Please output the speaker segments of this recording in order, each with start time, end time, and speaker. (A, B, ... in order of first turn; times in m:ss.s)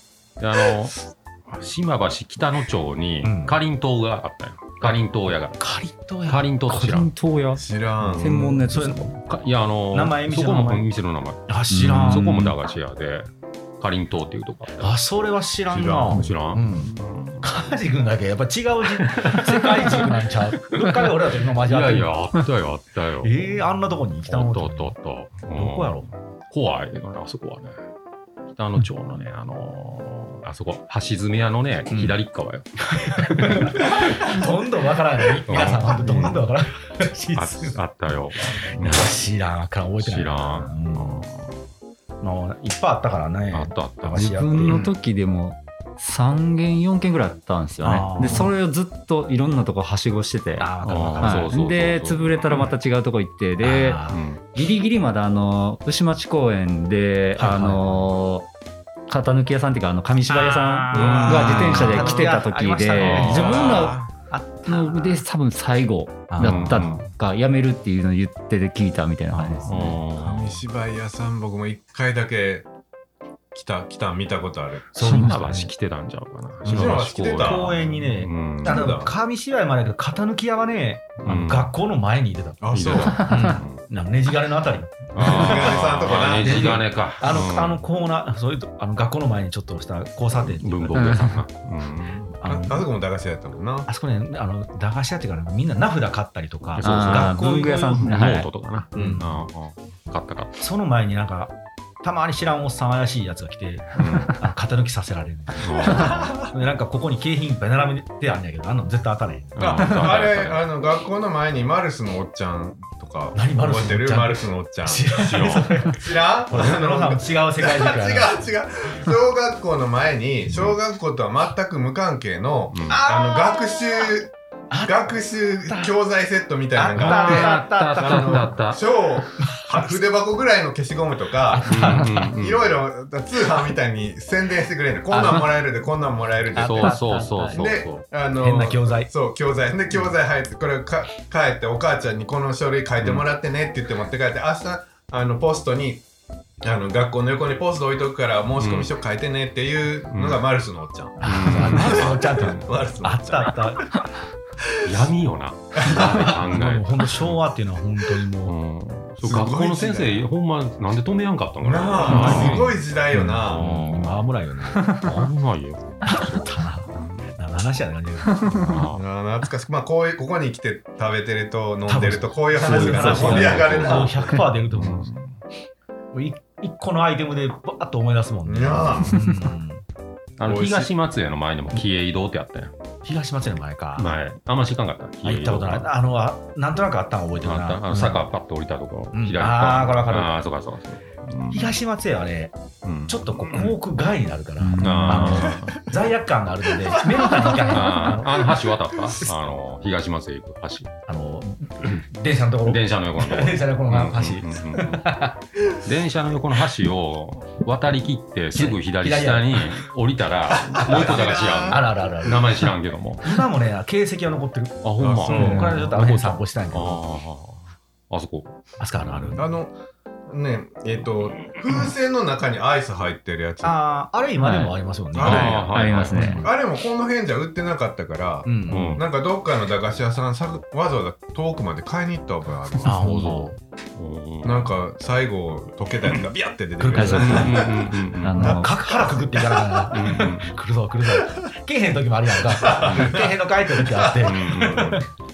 0:00.4-0:05.6 A
0:03.2-0:03.6 B
0:05.6-0:07.1 B
0:06.3-0:07.2 A
0:06.7-0:07.6 C
0:07.6-0:08.5 D
0:08.0-0:09.1 B
0:08.2-0:09.2 C
0:09.2-0:14.9 A
0:09.9-0:10.9 B
0:11.5-0:12.6 B
0:11.7-0:12.5 C
0:14.8-0:22.1 B
0:15.7-0:16.3 D
0:16.0-0:17.7 A
0:19.2-0:20.0 C
0:20.7-0:23.5 A
0:23.2-0:25.0 B
0:24.2-0:27.7 A
0:25.5-0:26.1 B
0:28.5-0:34.4 A
0:31.9-0:32.2 B
0:32.9-0:37.8 B
0:35.5-0:36.5 A
0:37.3-0:39.2 A
0:38.6-0:41.2 B
0:40.0-0:41.6 A
0:42.2-0:44.9 B
0:43.5-0:44.9 A
0:44.2-0:58.5 C
0:47.8-0:48.5 B
0:50.6-0:51.6 B
0:50.8-0:52.6 A
0:53.6-0:54.2 B
0:54.1-0:54.4 A
0:57.4-0:58.0 B
0:59.1-1:04.0 C
1:00.3-1:05.2 B
1:00.9-1:02.4 D
1:03.0-1:03.5 A
1:03.1-1:04.1 D
1:04.7-1:09.9 C
1:06.3-1:07.0 B
1:06.4-1:07.0 A
1:09.3-1:10.0 B
1:09.7-1:10.6 A
1:10.2-1:12.7 D
1:13.5-1:14.9 D
1:14.9-1:15.7 B
1:15.0-1:19.0 A
1:16.6-1:17.8 D
1:16.6-1:31.2 B
1:18.6-1:19.1 D
1:21.2-1:21.7 A
1:22.6-1:23.3 D
1:22.7-1:23.8 A
1:23.1-1:23.6 C
1:25.1-1:27.8 A
1:25.2-1:26.8 D
1:30.5-1:32.4 A
1:30.9-1:31.4 C
1:32.4-1:32.9 B
1:32.4-1:33.9 D
1:33.9-1:38.4 B
1:36.8-1:40.6 A
1:36.8-1:38.5 C
1:39.0-1:39.2 D
1:39.0-1:39.4 B
1:40.6-1:49.6 B
1:44.0-1:44.4 A
1:45.6-1:46.4 A
1:46.0-1:46.5 D
1:49.6-1:50.7 A
1:49.6-2:26.0 D
1:53.3-1:58.4 B
1:55.2-1:55.9 A
2:00.5-2:00.8 A
2:02.7-2:03.0 A
2:02.9-2:06.0 B
2:06.7-2:08.6 B
2:06.9-2:08.8 A
2:09.4-2:10.0 B
2:11.5-2:12.3 B
2:11.7-2:12.7 A
2:15.1-2:15.6 B
2:16.6-2:17.7 B
2:16.6-2:18.0 A
2:18.4-2:19.1 B
2:26.6-2:33.9 D
2:28.6-2:28.9 A
2:30.1-2:30.5 A
2:31.2-2:32.6 A
2:31.2-2:33.9 B
2:34.8-2:37.4 A
2:35.8-2:36.3 D
2:35.9-2:38.5 B
2:38.4-2:44.3 A
2:39.2-2:40.3 D
2:41.6-2:43.7 D
2:42.0-2:42.7 B
2:43.5-2:45.0 B
2:45.0-2:47.4 A
2:46.1-2:48.9 B
2:48.5-2:49.0 A
2:48.9-2:54.3 D
2:51.9-2:55.1 B
2:52.6-2:53.6 C
2:52.8-2:55.4 A
2:56.1-2:59.8 B
2:58.5-2:59.3 D
2:58.7-2:59.2 A
3:00.4-3:02.7 A
3:00.4-3:00.9 D
3:03.0-3:04.2 B
3:04.0-3:05.9 A
3:05.2-3:08.2 B
3:07.4-3:11.8 A
3:09.1-3:10.4 B
3:11.5-3:18.6 B
3:12.8-3:13.8 A
3:14.6-3:15.5 C
3:14.8-3:15.9 A
3:17.0-3:17.6 D
3:17.2-3:20.9 A
3:21.1-3:25.4 B
3:22.6-3:25.1 A
3:25.7-3:33.4 A
3:28.5-3:29.8 B
3:30.6-3:31.8 D
3:31.7-3:32.7 B
3:33.2-3:37.0 B
3:34.8-3:39.4 A
3:35.0-3:35.8 D
3:38.8-3:39.5 B
3:39.4-3:39.8 D
3:40.3-3:43.8 D
3:43.6-3:45.6 B
3:44.4-3:46.4 C
3:45.1-3:53.2 D
3:45.2-3:46.5 A
3:46.1-3:46.5 B
3:48.4-3:49.0 B
3:48.7-3:49.1 A
3:52.8-3:53.5 B
3:52.8-3:54.8 A
3:54.4-4:00.2 D
3:56.8-3:57.7 B
3:56.9-3:57.5 C
3:57.1-3:58.6 A
3:58.2-3:58.7 C
3:58.3-4:05.1 B
3:59.9-4:00.6 A
4:02.4-4:04.7 D
4:02.8-4:03.2 A
4:04.2-4:05.0 A